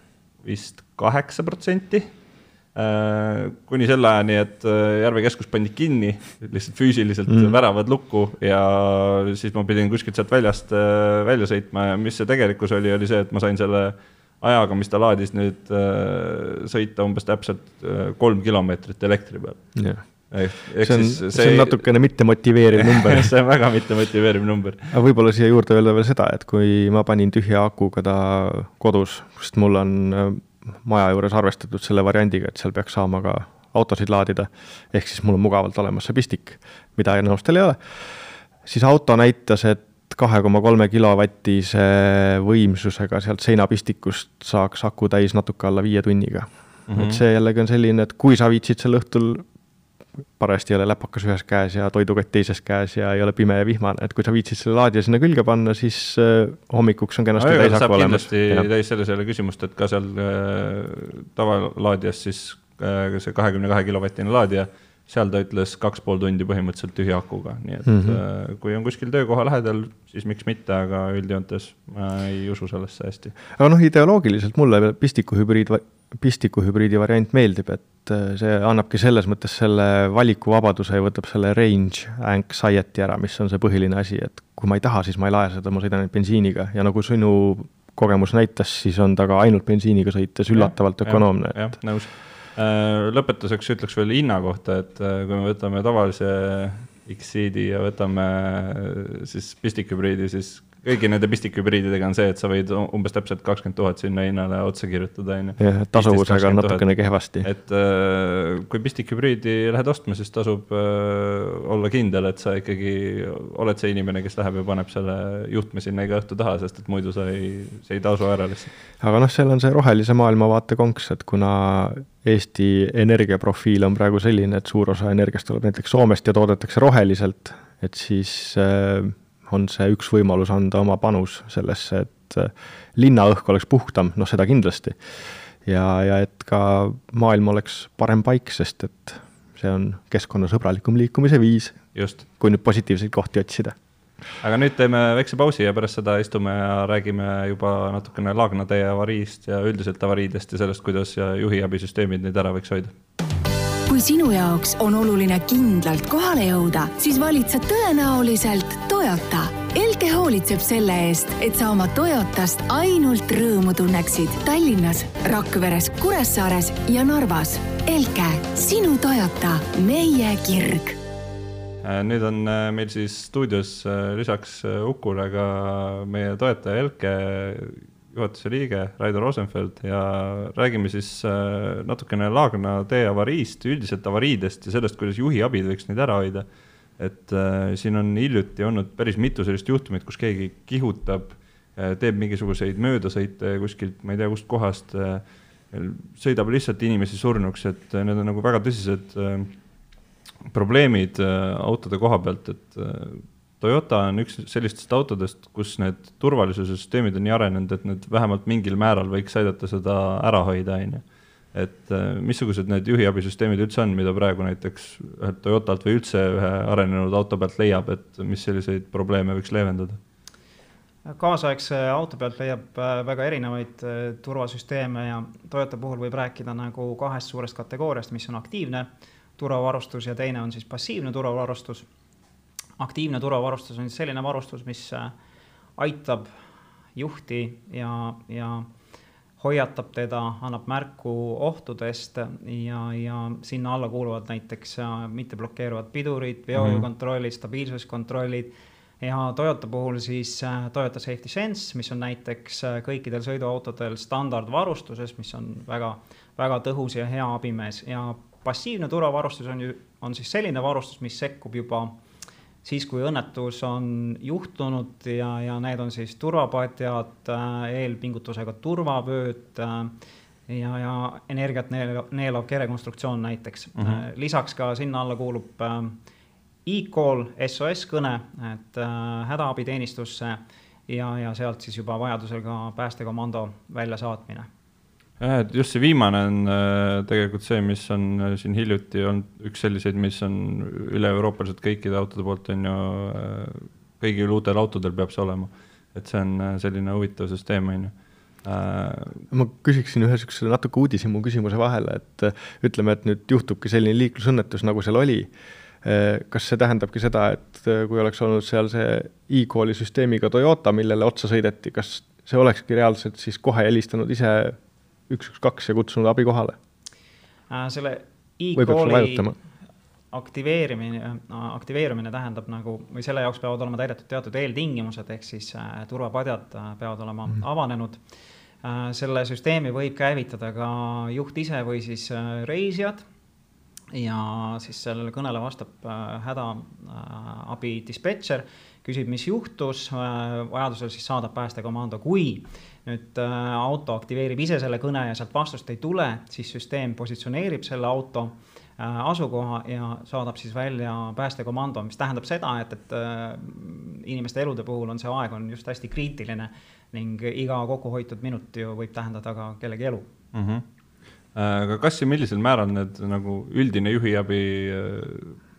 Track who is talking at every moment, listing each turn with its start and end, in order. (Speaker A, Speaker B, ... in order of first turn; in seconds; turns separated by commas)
Speaker A: 0.4-2.1, Speaker A: 2.8-21.9, Speaker B: 7.3-7.6, Speaker B: 19.8-20.0, Speaker B: 20.8-23.3, Speaker A: 22.8-24.9, Speaker B: 24.9-38.1, Speaker B: 38.6-49.5, Speaker A: 46.9-47.2, Speaker B: 50.4-58.7, Speaker A: 57.4-73.3, Speaker B: 67.9-68.2, Speaker B: 73.6-91.7, Speaker A: 90.5-106.9, Speaker B: 105.6-107.5, Speaker A: 107.4-118.7, Speaker B: 119.0-135.0, Speaker B: 135.7-143.8, Speaker A: 141.9-142.2, Speaker A: 144.4-152.9, Speaker C: 153.9-171.0, Speaker A: 171.8-186.5, Speaker A: 187.0-199.5, Speaker A: 200.5-211.0, Speaker A: 211.5-220.0, Speaker D: 221.1-231.9, Speaker D: 232.8-235.1, Speaker D: 235.8-236.3, Speaker D: 237.0-238.7, Speaker D: 239.4-261.9, Speaker A: 246.5-246.9, Speaker D: 262.6-269.9, Speaker D: 270.5-275.9, Speaker A: 273.8-274.0, Speaker D: 276.7-284.5, Speaker A: 285.2-297.9, Speaker A: 298.4-299.2, Speaker B: 299.3-305.3, Speaker B: 305.8-314.6, Speaker B: 315.1-316.6, Speaker D: 317.5-319.3, Speaker B: 318.5-319.4, Speaker D: 320.1-328.0, Speaker D: 328.6-333.0, Speaker D: 333.9-360.1, Speaker A: 360.3-360.6, Speaker A: 361.4-365.4